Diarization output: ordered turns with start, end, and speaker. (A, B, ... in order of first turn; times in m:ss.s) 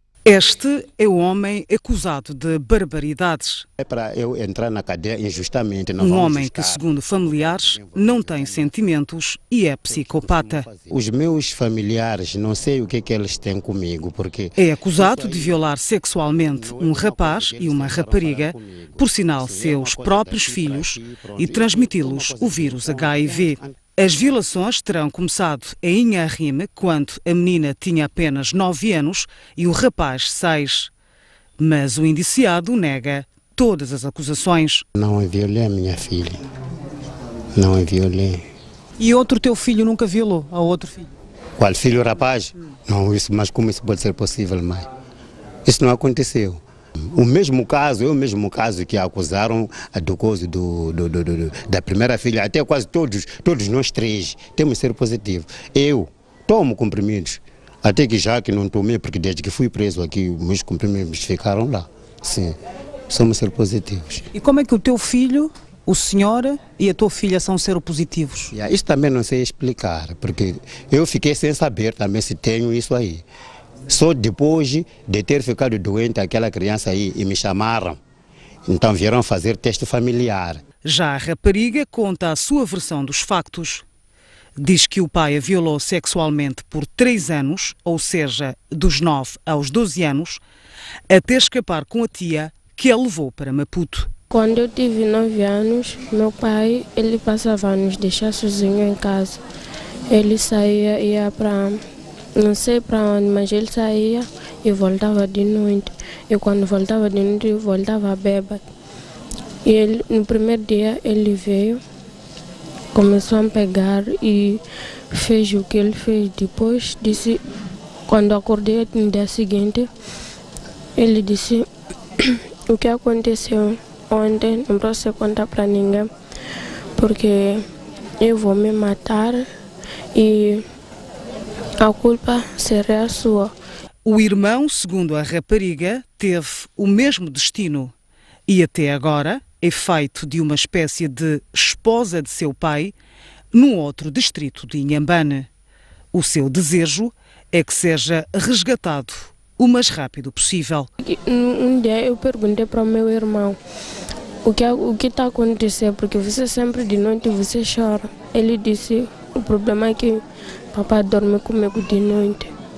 0:00.2-0:03.7 A
0:03.8-0:08.8 B
0:06.0-0:10.7 A
0:09.9-0:15.6 B
0:14.6-0:30.9 A
0:16.3-0:23.8 B
0:31.6-0:34.8 A
0:35.0-0:36.4 B
0:37.5-0:38.4 B
0:39.0-0:41.1 A
0:41.6-0:44.9 B
0:45.6-0:46.6 B
0:47.1-1:02.6 B
1:03.1-1:04.2 B
1:04.3-1:08.5 A
1:08.5-1:13.2 B
1:13.9-1:18.0 B
1:18.7-1:20.6 B
1:20.8-1:23.8 A
1:24.6-1:30.4 A
1:31.1-1:34.1 A
1:34.3-1:39.4 C
1:40.1-1:41.8 C
1:42.4-1:48.6 C
1:49.6-1:51.8 C
1:52.9-1:54.6 C
1:55.1-1:57.4 C
1:58.1-1:59.9 C
2:01.0-2:01.6 C
2:02.2-2:06.1 C
2:07.0-2:07.6 C
2:08.2-2:09.5 C
2:10.1-2:10.6 C
2:11.8-2:13.5 C
2:14.0-2:17.9 A
2:18.5-2:22.9 A
2:23.5-2:25.5 A
2:26.1-2:30.9 A
2:31.0-2:33.6 C
2:34.4-2:40.2 C
2:40.7-2:42.5 C